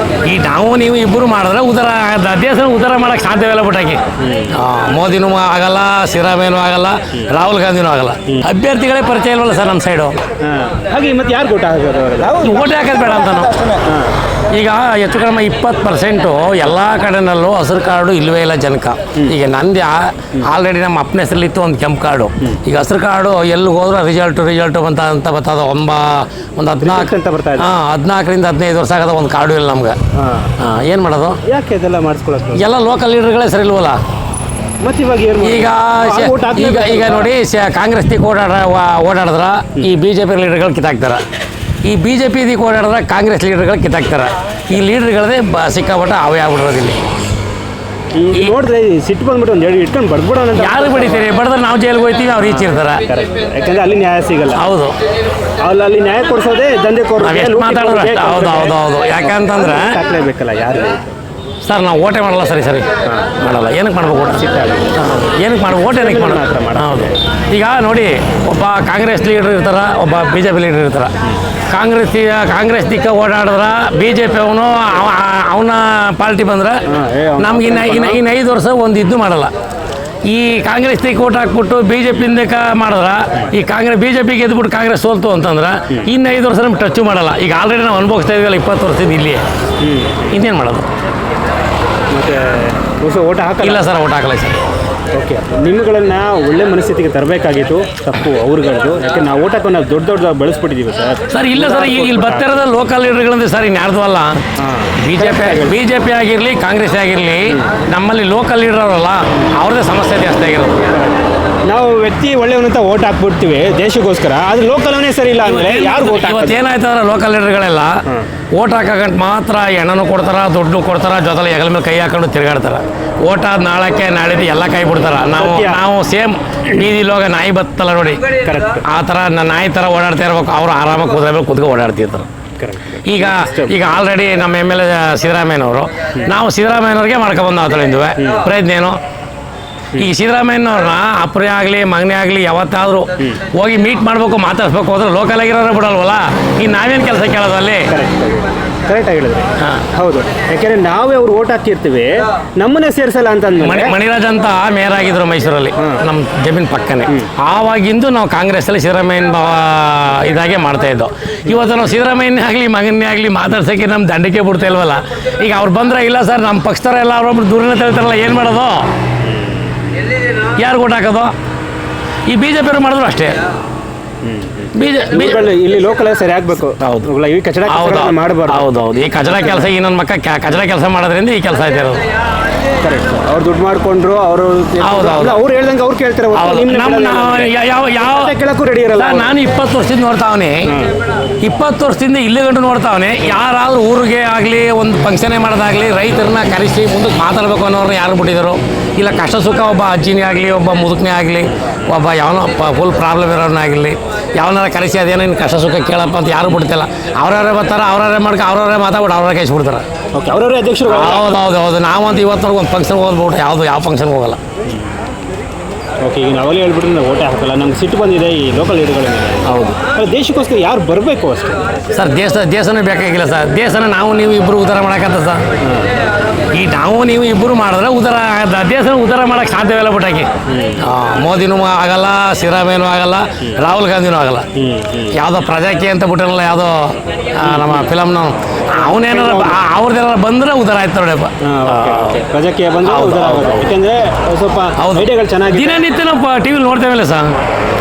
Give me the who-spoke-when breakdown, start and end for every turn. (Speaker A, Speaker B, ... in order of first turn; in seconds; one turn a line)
Speaker A: 0.2-10.2
Speaker B: 4.2-4.5
Speaker B: 10.4-12.7
Speaker A: 12.4-13.6
Speaker B: 13.8-14.2
Speaker A: 14.5-29.9
Speaker B: 26.8-27.7
Speaker B: 30.1-30.5
Speaker A: 30.6-31.4
Speaker B: 31.4-32.7
Speaker A: 32.5-34.0
Speaker B: 34.8-37.3
Speaker A: 35.4-41.2
Speaker A: 41.8-47.0
Speaker B: 48.1-51.3
Speaker A: 50.5-53.0
Speaker B: 52.4-54.6
Speaker A: 54.5-54.9
Speaker B: 55.6-61.1
Speaker A: 57.2-60.0
Speaker A: 61.6-62.9
Speaker B: 63.0-63.4
Speaker A: 63.4-64.4
Speaker B: 64.3-65.2
Speaker A: 65.0-71.1
Speaker B: 65.7-67.2
Speaker A: 71.7-76.8
Speaker B: 76.9-78.2
Speaker A: 77.4-79.5
Speaker A: 80.3-89.4
Speaker B: 89.8-90.3
Speaker A: 90.3-90.9
Speaker B: 92.1-93.8
Speaker A: 93.6-94.6
Speaker B: 95.1-102.7
Speaker A: 101.3-104.4
Speaker B: 104.6-105.8
Speaker A: 105.0-110.9
Speaker B: 110.9-116.6
Speaker A: 115.4-117.9
Speaker A: 118.5-128.3
Speaker B: 125.2-125.8
Speaker B: 128.4-128.8
Speaker A: 128.8-132.3
Speaker B: 132.6-133.8
Speaker A: 133.0-139.0
Speaker B: 138.2-138.5
Speaker A: 139.9-147.9
Speaker B: 147.9-153.9
Speaker A: 153.6-168.9
Speaker B: 169.2-169.8
Speaker A: 170.6-171.3
Speaker A: 172.3-173.4
Speaker B: 174.2-178.7
Speaker A: 174.7-175.4
Speaker A: 176.8-177.1
Speaker A: 177.7-182.0
Speaker B: 179.2-179.7
Speaker B: 182.8-189.3
Speaker A: 184.8-185.4
Speaker A: 186.3-188.3
Speaker A: 188.9-190.7
Speaker B: 190.7-190.9
Speaker A: 191.4-209.8
Speaker B: 210.1-211.3
Speaker A: 210.9-214.4
Speaker B: 214.6-214.9
Speaker B: 216.0-221.7
Speaker A: 219.5-219.7
Speaker A: 221.9-225.4
Speaker B: 225.6-225.9
Speaker A: 226.5-230.3
Speaker B: 230.5-230.8
Speaker A: 230.8-234.5
Speaker B: 234.5-235.2
Speaker A: 235.1-242.2
Speaker B: 237.4-237.9
Speaker B: 238.8-239.6
Speaker B: 241.4-245.8
Speaker A: 242.8-243.6
Speaker A: 244.8-247.3